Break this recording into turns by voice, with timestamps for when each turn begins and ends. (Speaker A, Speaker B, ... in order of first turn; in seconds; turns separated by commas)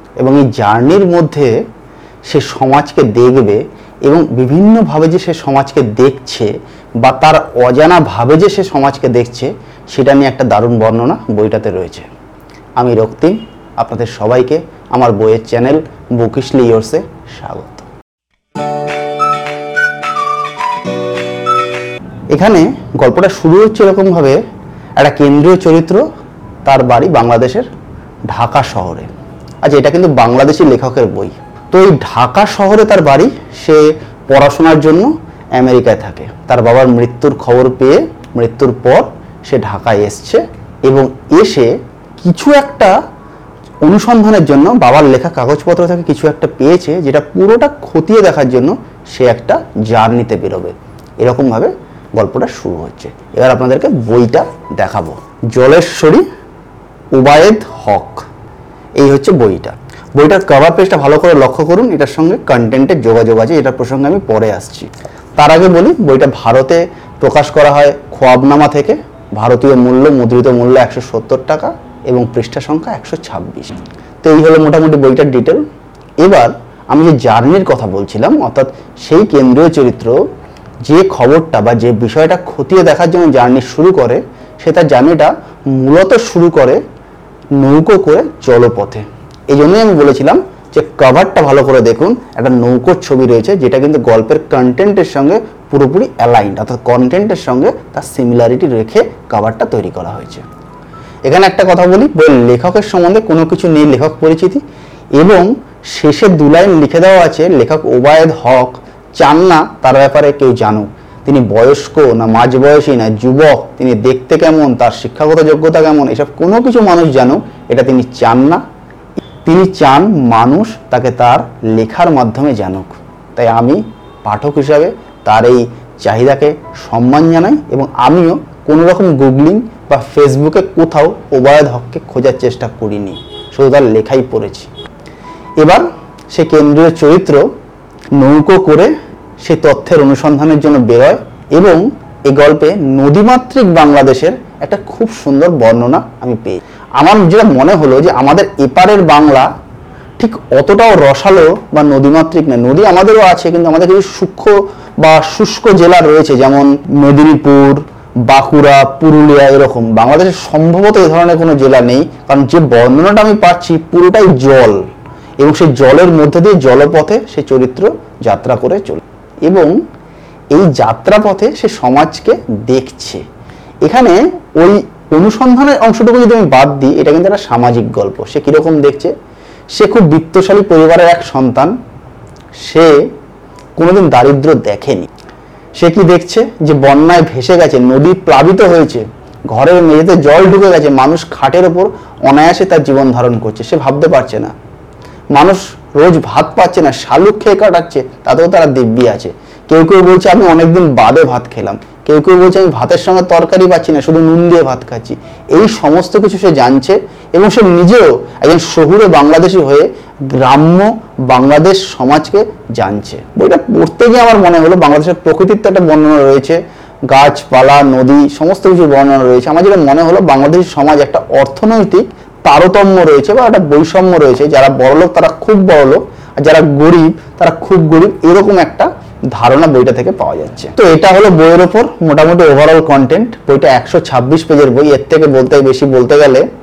Speaker A: 0.2-1.5, Speaker A: 2.3-6.5, Speaker A: 7.0-12.1, Speaker A: 12.8-17.9, Speaker A: 22.3-24.4, Speaker A: 25.0-26.1, Speaker A: 26.6-27.7, Speaker A: 28.3-29.1, Speaker A: 29.6-42.9, Speaker A: 43.9-56.2, Speaker A: 57.1-58.2, Speaker A: 59.0-75.6, Speaker A: 76.2-80.2, Speaker A: 80.9-86.8, Speaker A: 87.6-100.5, Speaker A: 101.3-104.6, Speaker A: 105.2-118.6, Speaker A: 119.5-134.7, Speaker A: 135.6-137.5, Speaker A: 138.2-138.9, Speaker A: 139.4-149.5, Speaker A: 150.2-164.8, Speaker A: 165.4-169.7, Speaker A: 170.5-173.2, Speaker A: 173.8-179.1, Speaker A: 179.8-181.7, Speaker A: 182.6-183.0, Speaker A: 183.8-185.1, Speaker A: 185.8-194.5, Speaker A: 195.3-236.4